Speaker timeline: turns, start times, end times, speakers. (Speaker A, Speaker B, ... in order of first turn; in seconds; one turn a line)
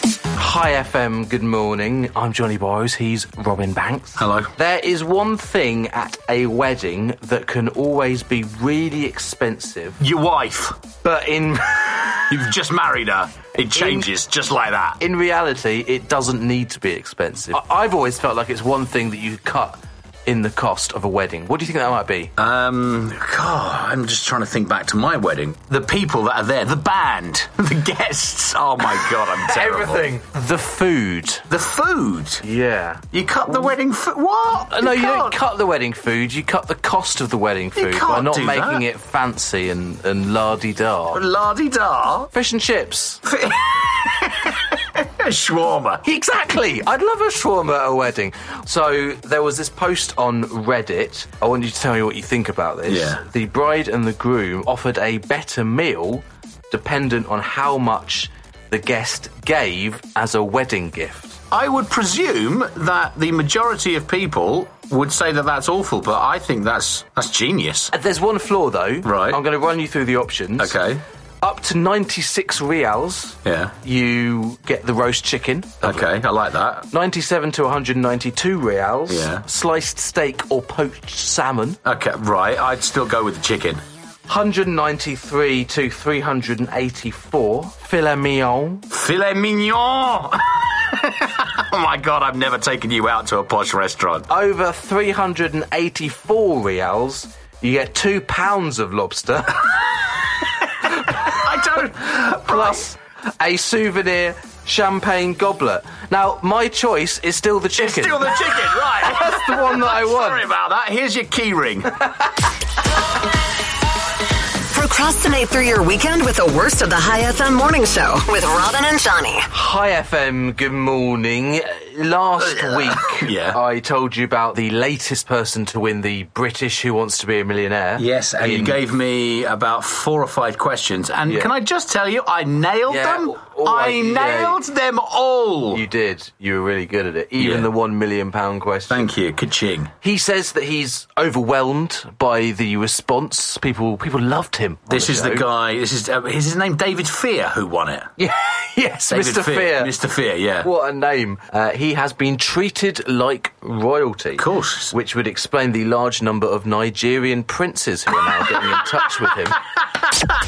Speaker A: 0.3-10.0
Speaker B: 4.2-4.5
Speaker B: 10.0-10.8
Speaker A: 11.0-12.2
Speaker B: 12.2-15.0
Speaker A: 13.7-14.1
Speaker A: 15.0-22.3
Speaker B: 22.4-30.1
Speaker A: 29.4-31.4
Speaker B: 31.5-32.4
Speaker A: 32.4-33.0
Speaker B: 33.1-35.4
Speaker A: 34.7-41.2
Speaker B: 37.8-38.8
Speaker B: 41.1-42.3
Speaker A: 42.3-43.2
Speaker B: 43.2-46.0
Speaker A: 46.0-61.4
Speaker B: 52.9-53.2
Speaker B: 61.5-67.9
Speaker A: 67.9-70.8
Speaker B: 69.0-69.4
Speaker B: 70.6-71.0
Speaker A: 71.4-76.1
Speaker B: 73.4-73.7
Speaker B: 75.8-76.9
Speaker A: 76.9-81.8
Speaker B: 79.1-79.4
Speaker B: 81.8-83.8
Speaker A: 84.3-88.8
Speaker B: 88.9-94.3
Speaker A: 94.3-99.7
Speaker B: 101.0-102.8
Speaker A: 101.2-108.4
Speaker B: 107.7-112.0
Speaker A: 109.0-110.5
Speaker C: 114.7-119.5
Speaker A: 119.5-128.8
Speaker B: 122.5-123.6
Speaker B: 128.0-135.8
Speaker A: 132.9-134.6
Speaker A: 135.7-139.1
Speaker B: 137.4-137.7
Speaker B: 138.9-139.9
Speaker A: 140.0-145.4
Speaker B: 144.9-148.1
Speaker A: 148.2-149.9
Speaker B: 149.1-150.7
Speaker A: 150.6-159.6
Speaker B: 154.4-154.9